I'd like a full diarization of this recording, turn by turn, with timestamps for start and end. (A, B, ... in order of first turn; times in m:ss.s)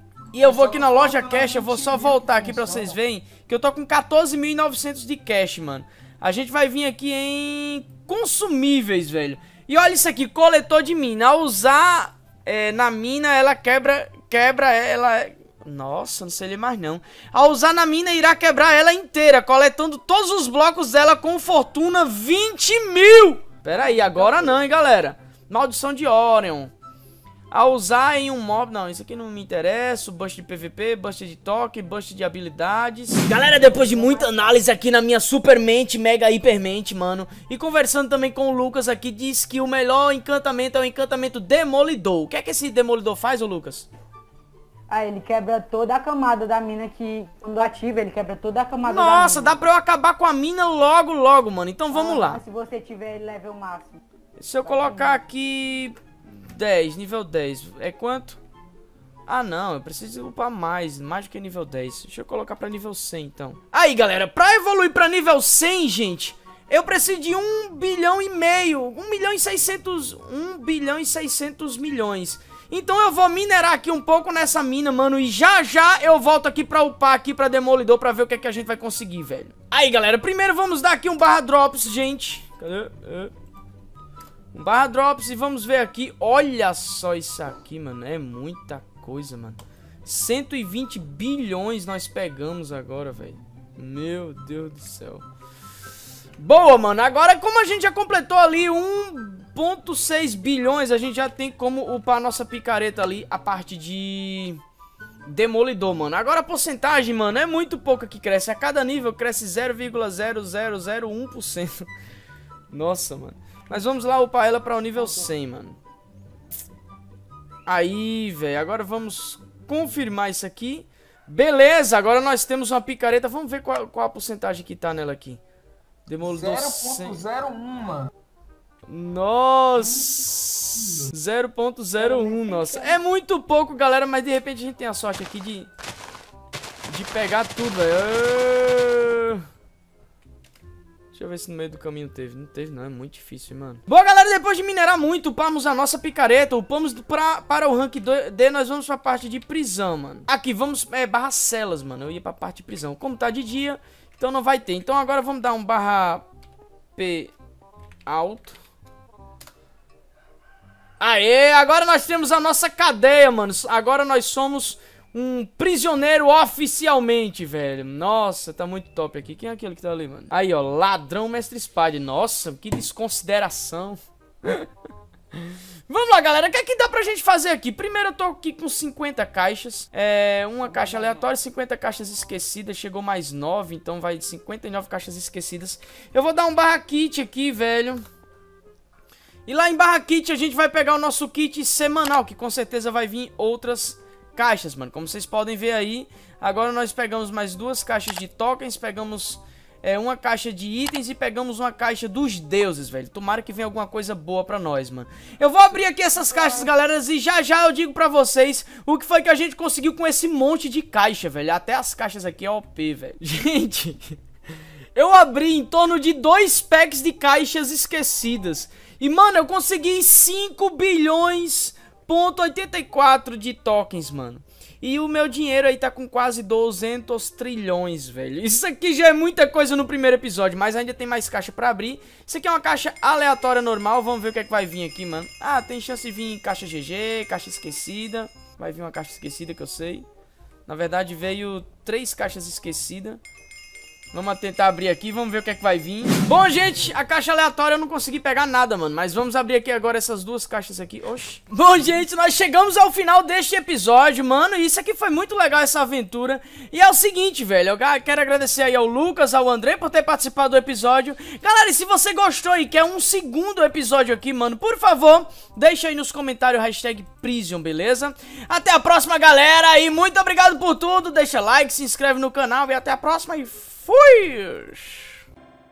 0:00.3-0:26.7 A
0:00.3-0:03.0 B
0:23.8-0:24.6 C
0:27.5-0:43.9 A
0:33.4-0:34.6 C
0:44.9-0:49.6 C
0:48.8-0:52.4 A
0:51.9-0:54.0 C
0:54.4-0:58.4 A
0:54.6-0:55.2 C
0:59.3-1:23.3 A
1:24.5-1:35.2 A
1:36.4-1:44.6 A
1:45.2-1:51.9 A
1:52.7-1:55.8 A
1:57.6-2:05.4 A
2:06.1-2:07.2 A
2:06.2-2:08.1 B
2:08.9-2:15.7 A
2:09.8-2:10.1 B
2:10.8-2:11.1 B
2:12.0-2:13.0 C
2:16.9-2:19.4 A
2:21.1-2:36.2 A
2:37.0-2:37.3 A
2:38.1-2:38.6 A
2:41.0-2:54.7 A
2:55.3-3:08.0 A
3:09.4-3:34.2 A
3:34.9-4:00.0 A
4:00.7-4:03.2 A
4:04.1-4:35.2 A